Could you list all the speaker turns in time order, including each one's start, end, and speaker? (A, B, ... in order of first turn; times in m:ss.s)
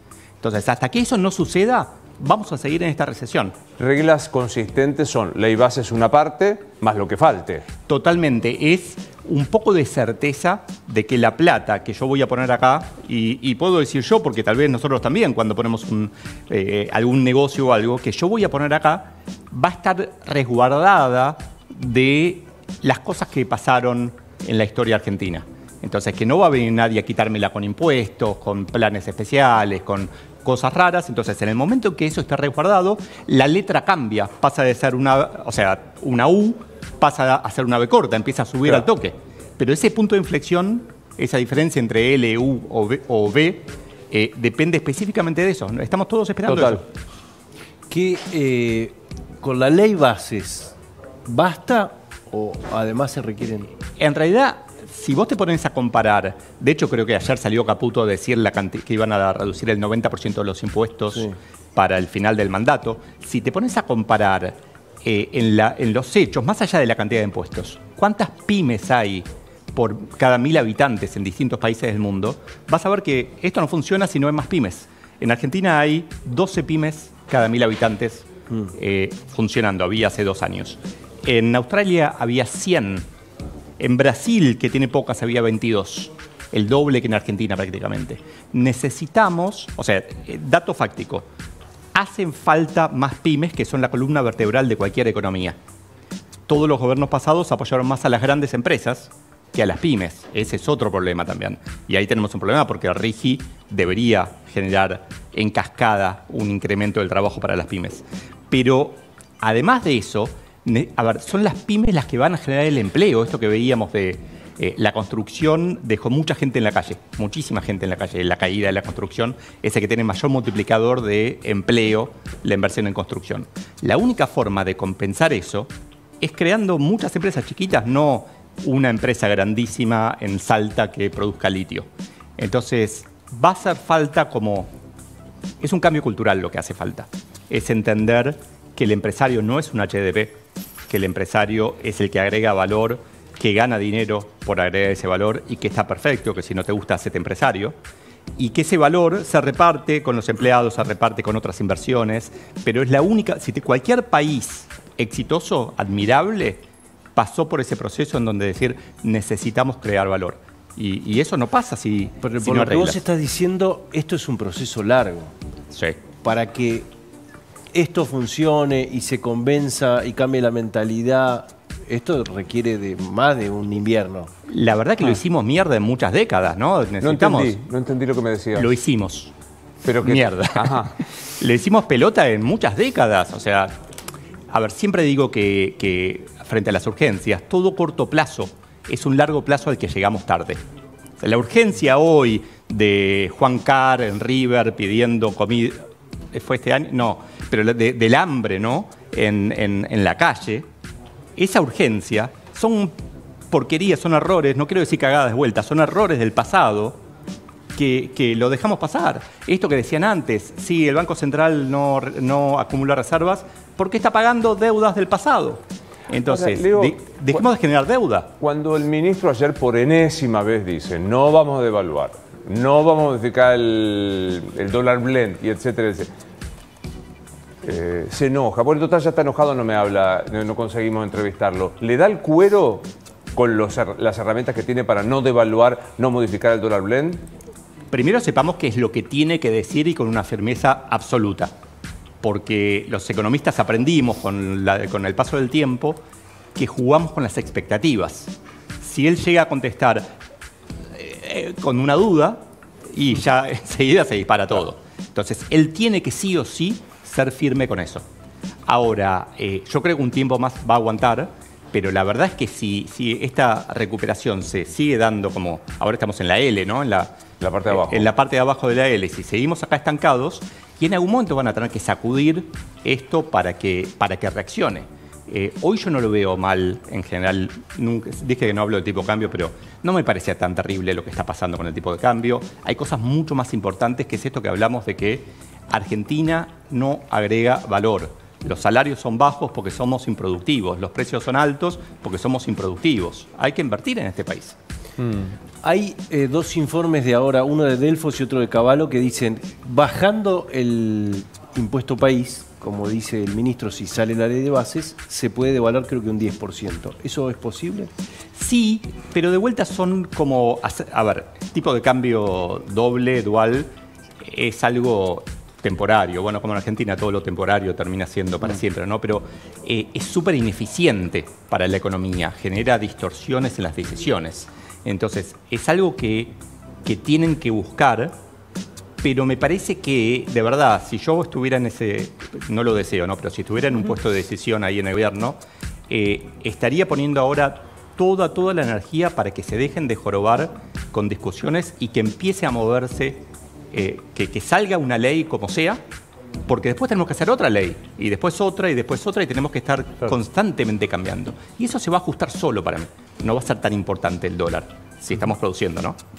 0:00.4-0:03.6 A
0:03.8-0:07.6 B
0:07.9-0:46.9 A
0:46.5-0:46.8 B
0:47.9-0:53.7 C
0:54.0-1:23.1 A
1:23.8-1:31.3 A
1:31.9-1:35.6 A
1:36.5-2:05.7 A
2:06.2-2:11.9 A
2:12.4-2:14.7 A
2:15.6-2:27.8 A
2:28.4-2:36.6 A
2:37.2-2:43.0 A
2:42.2-2:45.3 C
2:45.7-2:46.0 A
2:46.2-2:46.9 C
2:47.7-2:54.3 C
2:54.5-2:57.6 A
2:57.0-2:58.8 B
2:58.6-2:59.3 A
2:59.8-3:00.9 B
3:00.0-3:03.7 A
3:04.5-3:10.6 A
3:11.2-3:15.8 A
3:16.3-3:20.7 A
3:21.4-3:22.9 A
3:23.5-3:27.0 A
3:27.8-3:38.3 A
3:36.2-3:37.4 B
3:38.4-3:46.1 B
3:47.6-3:57.2 B
3:57.9-4:01.5 A
4:02.2-4:06.0 A
4:06.6-4:10.1 A
4:10.9-4:12.4 A
4:12.9-4:18.0 A
4:18.7-4:27.2 A
4:27.4-4:28.1 B
4:27.7-4:54.6 A
4:55.0-4:55.3 B
4:55.6-5:07.9 C
5:08.4-5:13.7 A
5:14.2-5:28.1 A
5:29.0-5:35.4 A
5:35.9-5:45.8 A
5:46.5-5:56.0 A